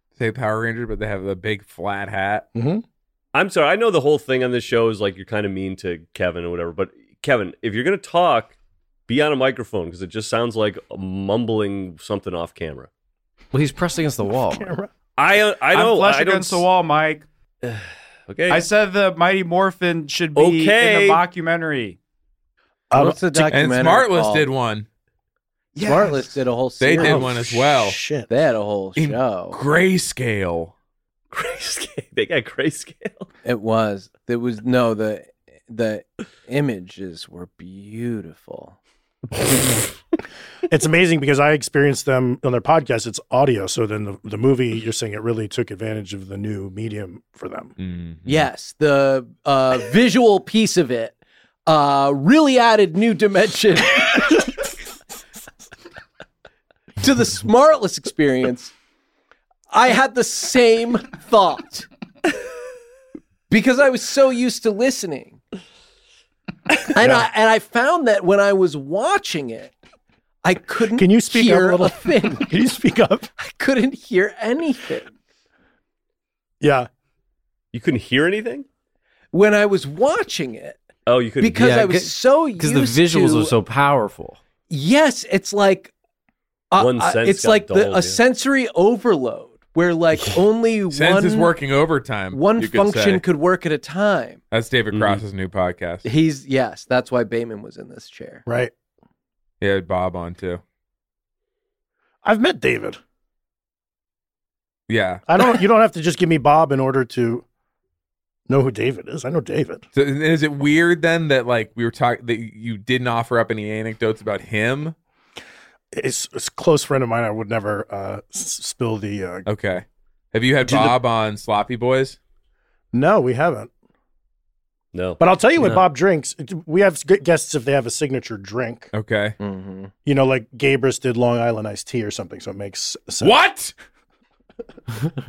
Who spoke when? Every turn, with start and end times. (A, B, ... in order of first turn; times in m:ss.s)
0:00.2-0:02.4 A
0:02.5-0:02.8 B
0:03.3-0:08.5 C
0:09.1-0:12.9 C
0:13.5-0:14.7 D
0:14.3-0:14.9 B
0:15.2-0:16.6 C
0:15.7-0:17.2 E
0:17.6-0:18.6 C
0:18.5-0:22.0 E
0:20.3-0:21.2 C
0:22.9-0:23.2 B
0:22.9-0:24.5 F
0:23.3-0:24.8 A
0:25.7-0:26.4 E
0:25.8-0:27.3 F
0:26.8-0:28.0 A
0:27.0-0:28.3 B
0:28.3-0:29.6 F
0:29.0-0:30.7 A
0:31.3-0:33.3 C
0:33.4-0:38.8 F
0:40.7-0:47.7 B
0:47.8-0:48.5 A
0:48.2-0:51.1 F
0:51.7-0:54.3 F
0:57.0-0:58.7 F
0:59.7-1:01.9 F
1:03.5-1:05.4 F
1:06.8-1:09.7 F
1:07.0-1:07.2 B
1:10.4-1:12.5 F
1:11.0-1:13.3 B
1:13.4-1:15.1 F
1:16.6-1:16.9 B
1:17.7-1:18.6 C
1:19.3-1:20.8 F
1:21.0-1:21.7 C
1:21.4-1:23.5 F
1:21.5-1:24.4 D
1:24.7-1:25.9 F
1:26.7-1:31.5 F
1:26.8-1:28.2 C
1:30.9-1:33.2 A
1:32.3-1:34.4 F
1:34.5-1:36.1 A
1:34.9-1:35.2 C
1:36.0-1:38.4 F
1:38.4-1:38.7 B
1:39.6-1:40.6 A
1:42.2-1:43.0 B
1:44.9-1:45.2 A
1:45.3-1:47.4 B
1:48.5-1:49.8 B
1:49.9-1:54.9 A
1:55.9-1:59.4 B
1:59.4-2:02.2 A
2:00.6-2:01.0 B
2:02.9-2:03.7 B
2:04.9-2:05.2 C
2:05.2-2:08.9 B
2:05.6-2:05.8 D
2:08.9-2:09.4 A
2:09.4-2:09.9 F
2:10.0-2:13.4 B
2:13.2-2:13.7 A